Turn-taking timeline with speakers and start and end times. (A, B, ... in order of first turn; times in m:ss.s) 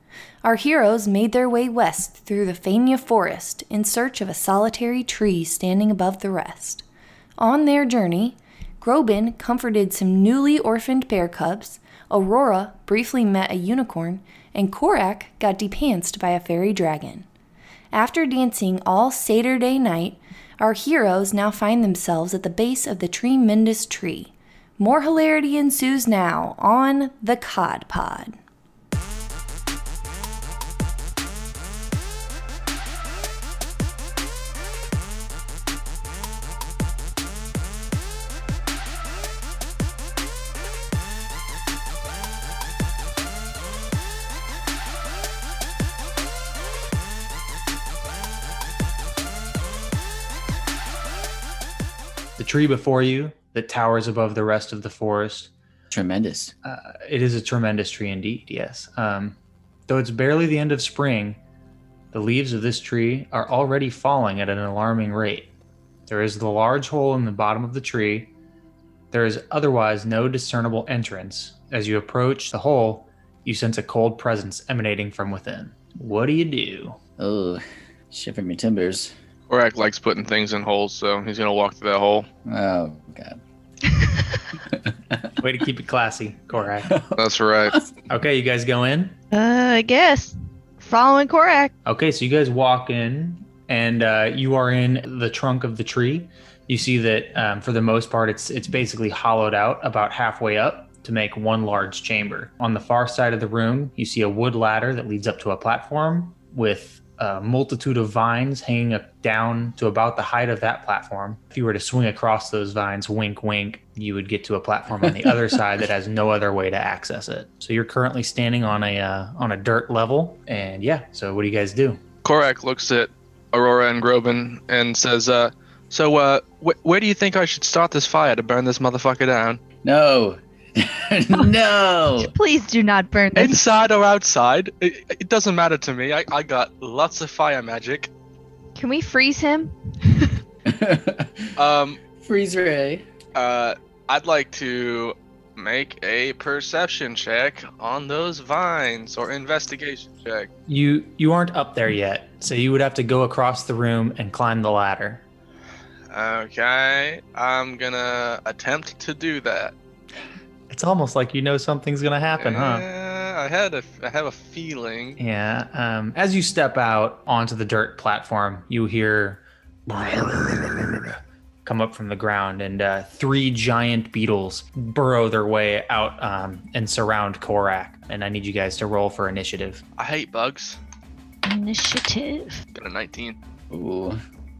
0:00.4-0:06.8 A
0:07.4-0:17.3 A
0:17.9-0:28.4 A
0:52.4-0:55.5 B
0:55.9-0:56.5 C
0:56.6-0:59.4 B
0:59.9-1:01.4 B
1:02.1-1:05.5 B
1:06.1-1:08.3 B
1:09.1-1:17.0 B
1:17.2-1:19.1 C
1:19.5-1:22.3 D
1:22.4-1:23.4 C
1:24.7-1:25.3 C
1:25.4-1:26.9 B
1:26.9-1:27.9 C
1:27.2-1:27.8 D
1:28.1-1:29.2 B
1:29.3-1:31.7 E
1:31.8-2:02.0 B
1:55.0-1:55.4 C
2:02.2-2:09.6 D
2:09.8-2:12.3 C
2:12.2-2:13.6 E
2:13.4-2:18.1 D
2:18.8-2:20.4 E
2:20.6-2:21.5 C
2:21.6-2:22.0 D
2:22.2-2:23.1 C
2:23.4-2:30.5 D
2:30.7-2:35.2 B
2:36.1-2:39.7 D
2:40.7-2:42.9 B
2:42.4-2:45.2 D
2:45.2-2:59.8 B
3:00.0-3:00.8 D
3:01.5-3:02.6 E
3:02.7-3:03.4 D
3:03.7-3:04.2 C